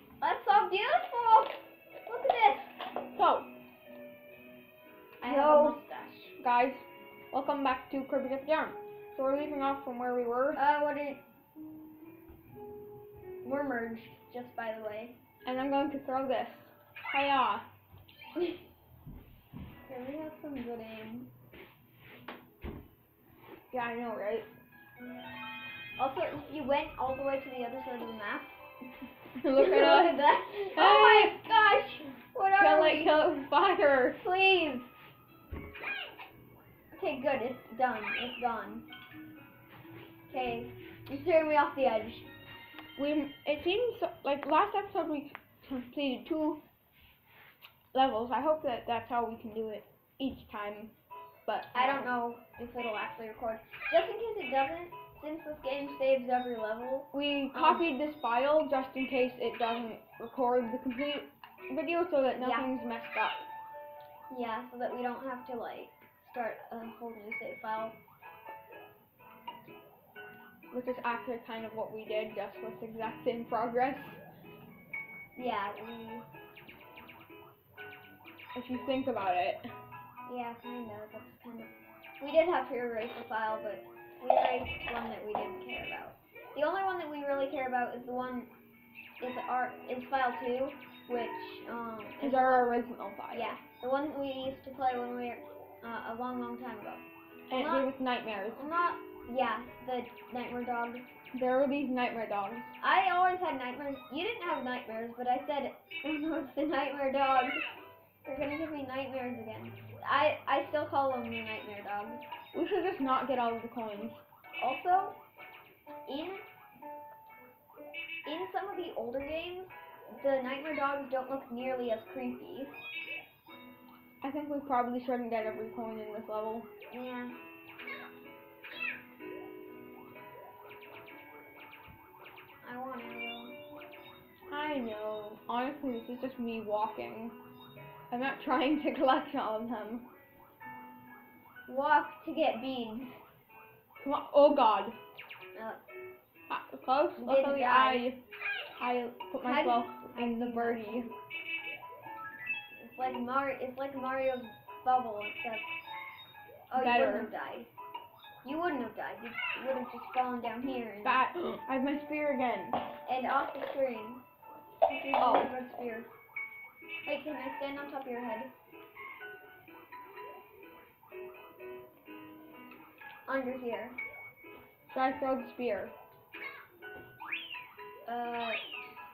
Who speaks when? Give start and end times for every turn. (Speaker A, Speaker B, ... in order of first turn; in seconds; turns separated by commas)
Speaker A: 0.2-2.7, Speaker B: 3.2-3.5, Speaker B: 5.2-10.6, Speaker A: 5.2-5.8, Speaker A: 10.6-11.2, Speaker A: 13.4-15.2, Speaker B: 15.4-17.7, Speaker A: 19.9-21.3, Speaker B: 23.7-24.5, Speaker A: 26.0-28.6, Speaker B: 29.4-31.4, Speaker A: 29.6-33.1, Speaker B: 32.6-34.2, Speaker A: 34.2-34.9, Speaker A: 36.9-38.9, Speaker A: 40.3-42.3, Speaker B: 43.0-46.6, Speaker B: 47.9-50.9, Speaker B: 51.5-52.1, Speaker A: 51.7-57.8, Speaker B: 57.1-63.5, Speaker A: 62.4-62.7, Speaker A: 64.3-68.0, Speaker B: 70.7-74.2, Speaker A: 75.4-76.3, Speaker B: 78.5-79.7, Speaker A: 80.3-88.5, Speaker A: 89.2-92.7, Speaker B: 92.2-93.6, Speaker A: 93.3-97.9, Speaker B: 97.5-98.6, Speaker A: 98.5-101.1, Speaker B: 101.3-102.7, Speaker A: 102.8-107.7, Speaker A: 108.2-112.2, Speaker B: 112.5-114.2, Speaker A: 114.6-115.2, Speaker A: 116.1-116.4, Speaker A: 118.3-122.7, Speaker B: 124.2-126.7, Speaker A: 126.9-127.4, Speaker A: 132.6-133.6, Speaker B: 134.5-137.4, Speaker B: 138.1-140.1, Speaker A: 141.7-143.2, Speaker B: 144.0-145.0, Speaker A: 145.6-145.8, Speaker B: 146.5-148.2, Speaker A: 147.2-148.1, Speaker B: 148.8-151.1, Speaker A: 149.4-151.2, Speaker A: 152.7-155.7, Speaker A: 156.7-157.7, Speaker B: 156.7-157.3, Speaker A: 158.4-161.3, Speaker B: 161.0-162.8, Speaker A: 163.1-164.2, Speaker A: 164.9-166.1, Speaker B: 165.2-165.6, Speaker A: 167.1-168.5, Speaker A: 173.3-174.0, Speaker B: 174.9-175.9, Speaker A: 178.1-178.6